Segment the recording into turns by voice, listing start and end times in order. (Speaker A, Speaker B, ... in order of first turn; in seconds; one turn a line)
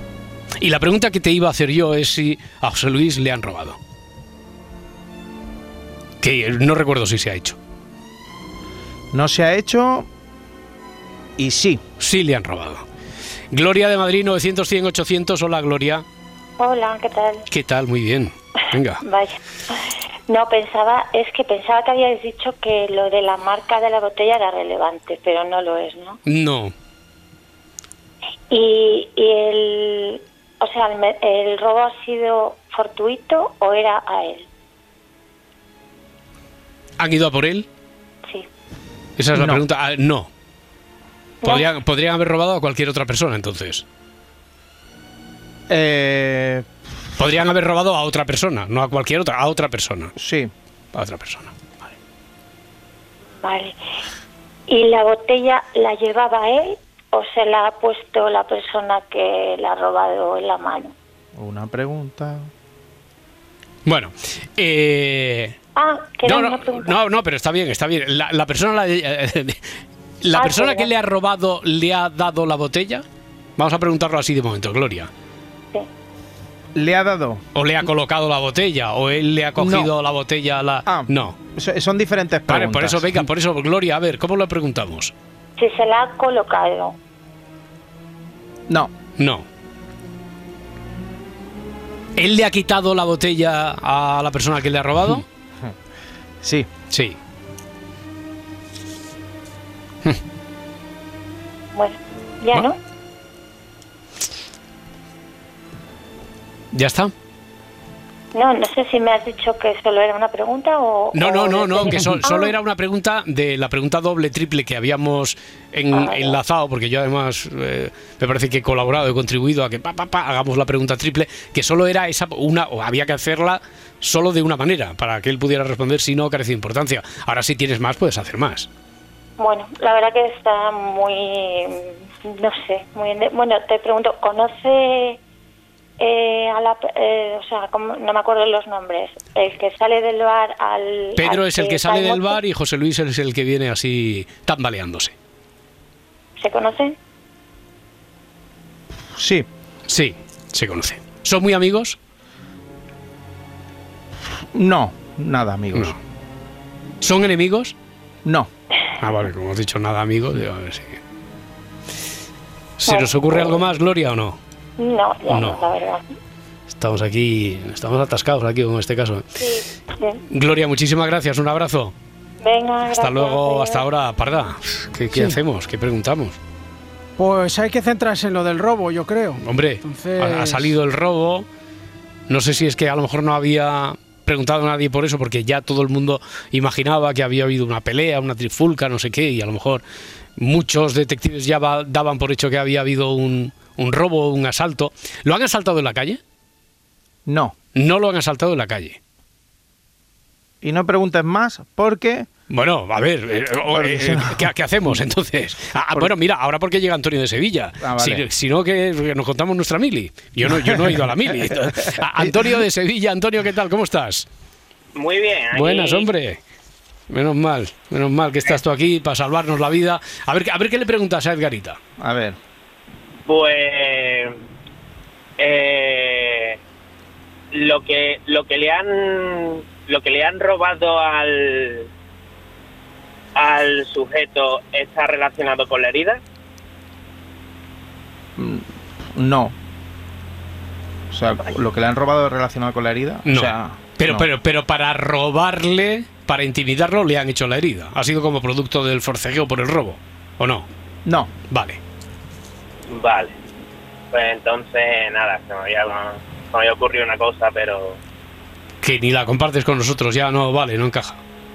Speaker A: 0.6-3.8
Speaker A: 6.2-7.6
Speaker B: 9.1-10.1
Speaker B: 11.4-11.8
Speaker A: 12.0-12.8
Speaker A: 13.5-16.0
Speaker C: 16.6-17.4
Speaker A: 17.5-19.0
Speaker C: 19.0-19.8
Speaker C: 20.3-26.2
Speaker A: 26.2-26.7
Speaker C: 28.5-34.5
Speaker A: 37.0-37.6
Speaker A: 39.2-40.3
Speaker B: 39.3-39.6
Speaker C: 41.4-41.7
Speaker A: 41.4-43.8
Speaker B: 45.7-46.7
Speaker A: 47.2-50.1
Speaker B: 50.2-50.5
Speaker A: 50.9-51.7
Speaker C: 53.4-53.8
Speaker C: 54.7-60.9
Speaker B: 61.3-62.5
Speaker A: 63.9-65.5
Speaker C: 65.7-67.0
Speaker A: 66.2-69.6
Speaker A: 70.2-73.0
Speaker C: 70.3-70.9
Speaker A: 73.6-75.1
Speaker B: 76.7-77.4
Speaker A: 77.5-81.4
Speaker B: 79.6-79.9
Speaker B: 80.8-83.2
Speaker A: 82.5-85.1
Speaker C: 85.6-87.0
Speaker A: 89.2-89.4
Speaker A: 92.2-95.2
Speaker B: 96.4-96.7
Speaker A: 96.9-97.2
Speaker C: 101.7-102.8
Speaker A: 106.7-107.1
Speaker C: 108.3-112.5
Speaker A: 111.1-128.7
Speaker C: 115.9-116.4
Speaker C: 129.4-135.2
Speaker C: 136.0-142.4
Speaker A: 141.2-145.1
Speaker C: 146.4-147.0
Speaker B: 149.1-149.5
Speaker A: 149.9-152.0
Speaker B: 154.5-155.9
Speaker A: 157.0-157.7
Speaker A: 159.0-161.0
Speaker A: 162.8-164.4
Speaker C: 162.9-163.6
Speaker C: 164.8-166.1
Speaker A: 165.3-165.6
Speaker A: 166.7-169.3
Speaker C: 169.4-170.2
Speaker A: 170.3-171.9
Speaker C: 172.4-173.8
Speaker A: 172.9-176.4
Speaker D: 175.1-175.4
Speaker D: 177.2-180.7
Speaker A: 179.4-181.4
Speaker A: 182.3-189.8
Speaker A: 190.4-196.2
Speaker B: 197.2-197.5
Speaker A: 197.7-199.0
Speaker B: 200.6-202.3
Speaker A: 202.5-214.3
Speaker B: 203.7-204.5
Speaker B: 207.8-208.2
Speaker B: 210.5-212.3
Speaker E: 214.9-216.1
Speaker A: 215.5-216.4
Speaker A: 217.1-221.8
Speaker B: 222.0-222.4
Speaker E: 223.2-224.3
Speaker E: 225.4-226.6
Speaker E: 227.5-231.9
Speaker E: 233.3-236.2
Speaker B: 238.3-239.5
Speaker B: 241.1-244.3
Speaker A: 243.2-250.7
Speaker B: 251.0-251.3
Speaker A: 251.5-251.8
Speaker E: 252.9-253.3
Speaker E: 254.1-258.0
Speaker A: 258.8-261.2